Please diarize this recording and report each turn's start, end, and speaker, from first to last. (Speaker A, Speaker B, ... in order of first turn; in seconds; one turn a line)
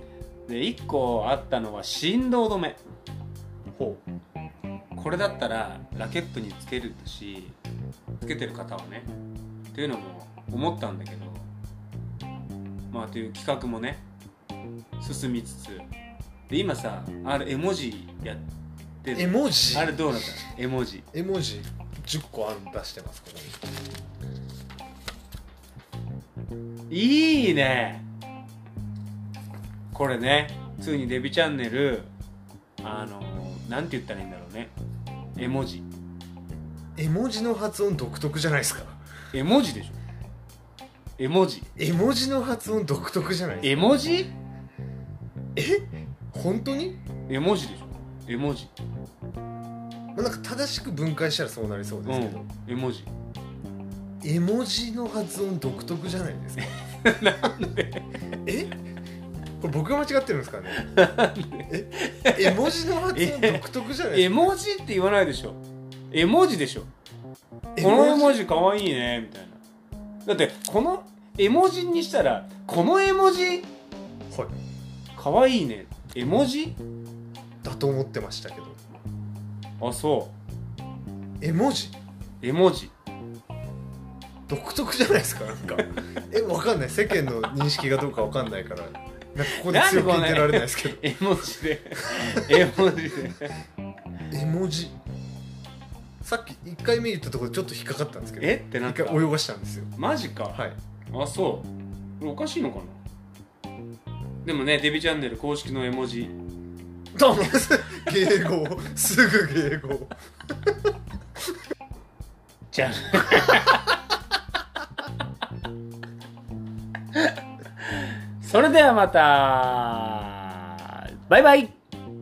Speaker A: 0.5-2.8
Speaker B: 3.7-4.0
Speaker A: 5.0-7.6
Speaker A: 8.2-9.1
Speaker A: 9.7-11.5
Speaker A: 12.9-14.0
Speaker A: 15.0-15.9
Speaker A: 16.5-18.4
Speaker A: 19.0-21.1
Speaker B: 19.1-20.1
Speaker B: 21.1-23.6
Speaker A: 26.9-28.0
Speaker A: 29.9-32.1
Speaker A: 32.8-34.7
Speaker A: 35.4-35.9
Speaker B: 37.0-39.0
Speaker A: 39.3-40.0
Speaker A: 41.2-41.7
Speaker B: 41.8-44.0
Speaker A: 43.6-44.3
Speaker B: 45.5-47.0
Speaker A: 47.3-48.7
Speaker B: 50.1-52.5
Speaker A: 52.0-53.1
Speaker B: 54.2-56.7
Speaker A: 56.6-58.2
Speaker B: 58.4-58.7
Speaker B: 59.6-60.9
Speaker A: 60.7-66.9
Speaker B: 61.7-64.6
Speaker B: 67.7-68.4
Speaker A: 67.8-69.6
Speaker A: 70.2-73.7
Speaker A: 75.2-76.8
Speaker B: 77.6-78.8
Speaker A: 79.8-80.3
Speaker B: 81.4-82.0
Speaker A: 82.4-82.9
Speaker B: 84.5-91.1
Speaker A: 89.4-93.6
Speaker B: 92.1-92.7
Speaker B: 94.3-95.0
Speaker B: 96.2-99.9
Speaker A: 98.4-99.3
Speaker A: 100.0-103.0
Speaker B: 100.5-100.8
Speaker A: 104.4-106.4
Speaker B: 107.1-110.7
Speaker A: 112.7-114.0
Speaker A: 117.1-121.8